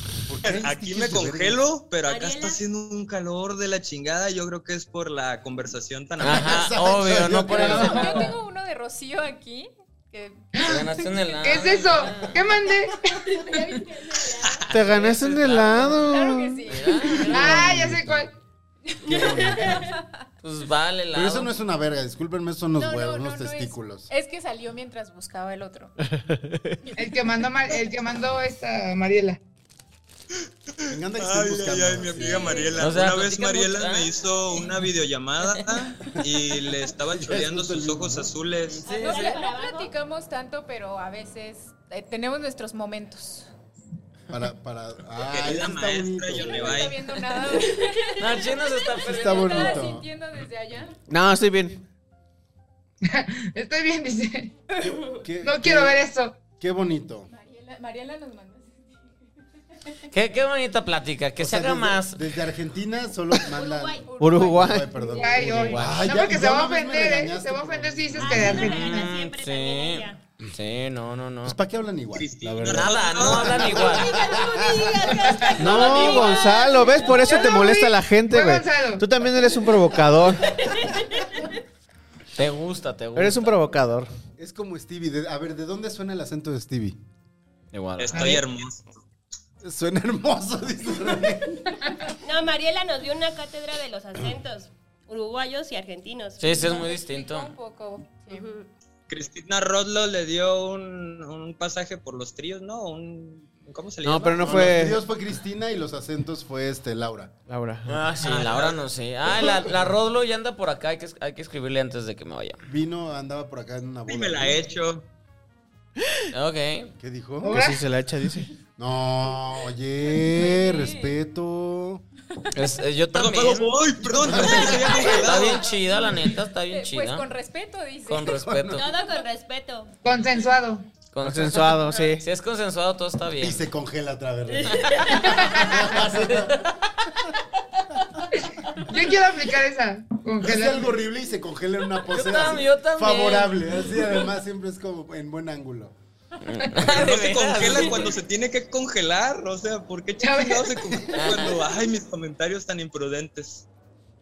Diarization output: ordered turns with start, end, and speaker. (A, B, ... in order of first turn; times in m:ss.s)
0:00.2-0:01.6 A
0:00.4-0:06.7 B
0:02.0-0:02.6 C
0:06.2-0:08.4 D
0:06.2-0:08.3 A
0:07.5-0:11.6 E
0:10.5-0:10.8 F
0:10.6-0:12.4 D
0:11.4-0:13.5 F
0:13.1-0:14.7 C
0:14.4-0:15.0 B
0:14.7-0:16.6 G
0:14.8-0:16.1 D
0:15.9-0:17.5 E
0:16.7-0:17.7 D
0:17.3-0:18.3 A
0:17.3-0:18.3 F
0:18.9-0:20.1 E
0:19.0-0:19.9 A
0:19.1-0:19.9 C
0:20.4-0:21.5 D
0:21.1-0:24.1 A
0:22.8-0:25.9 E
0:26.0-0:26.8 G
0:27.0-0:29.4 F
0:30.8-0:38.8 B
0:30.9-0:32.9 A
0:32.1-0:32.8 C
0:32.2-0:32.7 E
0:32.8-0:34.1 D
0:37.1-0:38.3 A
0:38.7-0:39.4 D
0:38.8-0:39.9 C
0:38.9-0:43.5 E
0:44.3-0:46.9 A
0:45.2-0:47.0 B
0:46.4-0:51.0 E
0:47.3-0:48.2 C
0:48.2-0:49.8 D
0:49.0-0:50.0 A
0:51.1-0:51.8 G
0:53.0-0:54.5 F
0:54.8-0:55.2 C
0:55.2-0:56.0 A
0:55.4-0:56.4 F
0:56.6-0:57.3 A
0:57.3-0:59.1 E
1:00.1-1:02.2 D
1:01.4-1:04.0 A
1:03.5-1:04.5 C
1:04.0-1:05.6 E
1:04.2-1:06.1 G
1:04.6-1:08.7 A
1:05.1-1:09.1 F
1:08.2-1:10.2 C
1:08.2-1:11.6 D
1:11.4-1:16.4 A
1:12.1-1:14.0 B
1:12.6-1:14.3 D
1:13.8-1:17.5 C
1:15.6-1:20.7 G
1:17.2-1:19.0 F
1:20.6-1:21.5 C
1:22.3-1:23.6 D
1:23.2-1:24.1 G
1:24.4-1:27.0 A
1:27.7-1:28.4 D
1:28.0-1:29.0 B
1:28.1-1:28.4 F
1:29.6-1:31.8 A
1:32.2-1:36.7 C
1:36.4-1:37.5 D
1:36.5-1:38.6 E
1:38.3-1:38.6 C
1:39.1-1:44.7 B
1:44.0-1:45.0 G
1:44.4-1:47.3 A
1:47.5-1:48.1 G
1:47.9-1:52.6 D
1:48.2-1:48.8 B
1:52.7-1:54.6 A
1:54.1-1:55.0 B
1:56.3-1:56.9 D
1:57.0-1:57.6 A
1:57.4-1:57.8 F
1:57.4-1:58.5 G
1:58.8-2:02.0 A
2:00.2-2:01.1 E
2:02.5-2:07.3 D
2:03.1-2:05.6 B
2:04.1-2:05.2 A
2:04.7-2:08.4 E
2:08.1-2:08.8 D
2:08.3-2:08.8 A
2:08.7-2:09.9 C
2:10.0-2:10.9 F
2:11.1-2:13.6 D
2:11.2-2:12.2 G
2:13.4-2:16.7 A
2:14.6-2:15.4 C
2:14.8-2:17.1 D
2:18.8-2:20.9 F
2:20.4-2:25.9 A
2:22.1-2:23.7 D
2:26.4-2:28.2 D
2:26.8-2:33.6 B
2:27.6-2:28.0 C
2:30.2-2:31.3 F
2:31.1-2:31.6 D